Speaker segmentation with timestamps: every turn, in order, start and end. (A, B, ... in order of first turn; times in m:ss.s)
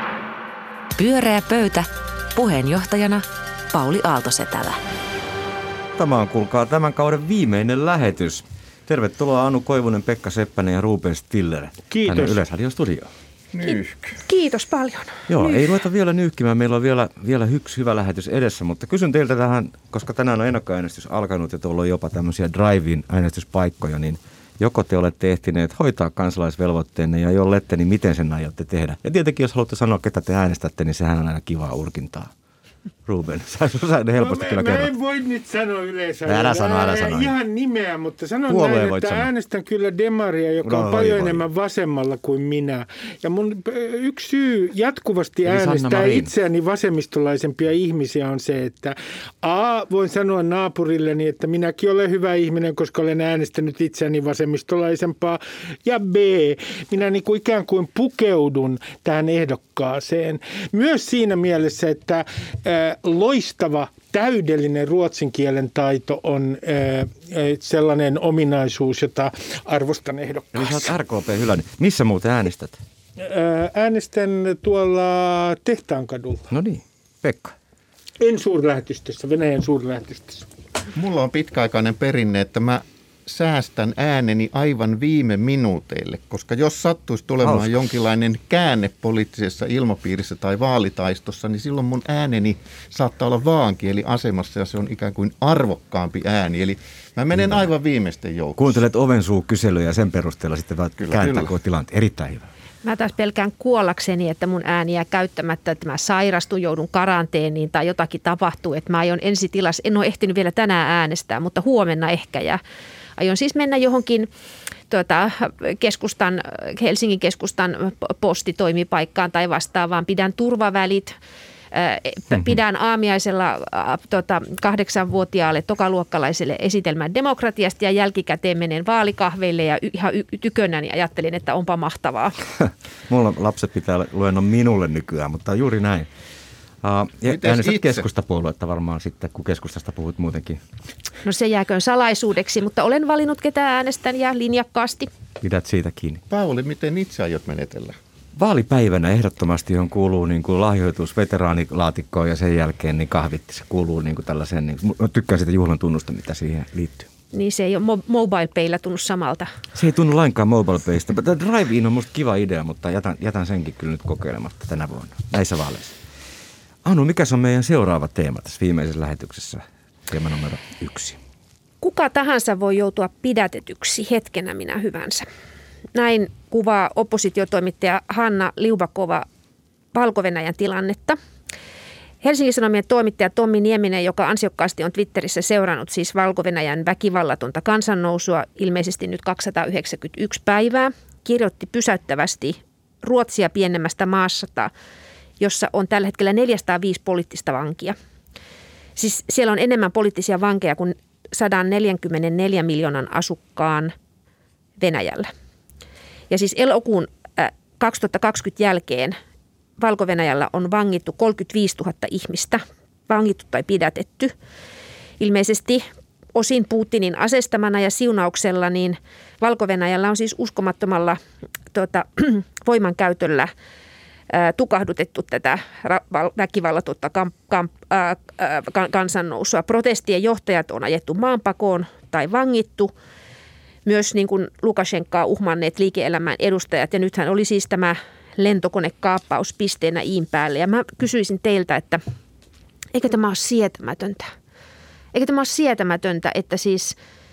0:01.0-0:04.8 A
0:06.0-0:13.1 B
0:11.9-0:12.4 C
0:13.5-0:14.2 D
0:13.6-0:15.7 E
0:15.3-0:32.3 B
0:33.1-0:34.9 B
0:34.2-1:11.0 C
0:36.3-0:37.3 B
0:38.5-0:39.3 B
0:40.6-0:41.4 B
0:45.4-0:46.3 B
1:10.5-1:12.8 B
1:13.2-1:16.5 C
1:16.5-1:17.5 B
1:18.2-1:20.5 C
1:20.9-1:38.8 D
1:27.4-1:27.7 B
1:37.3-1:37.7 B
1:38.6-1:42.5 B
1:41.0-1:41.5 D
1:42.8-1:52.6 E
1:53.2-1:54.3 E
1:54.9-2:01.2 E
2:01.7-2:12.4 E
2:13.1-2:16.1 B
2:16.8-2:20.6 B
2:17.3-2:18.0 D
2:21.2-2:25.1 E
2:25.4-2:26.2 B
2:26.3-2:28.0 D
2:28.4-2:37.1 B
2:37.3-2:39.5 E
2:39.8-2:46.0 B
2:46.8-2:51.2 B
2:51.8-2:55.3 E
2:55.9-2:59.3 E
2:59.9-3:01.2 E
3:02.2-3:14.7 E
3:15.4-3:18.0 E
3:19.0-3:23.9 E
3:24.8-3:25.3 E
3:26.3-3:29.2 E
3:29.8-3:34.3 E
3:35.2-3:41.2 E
3:41.7-3:43.5 E
3:44.3-3:52.9 E
3:53.8-4:02.0 E
4:02.9-4:04.3 E
4:05.1-4:07.0 E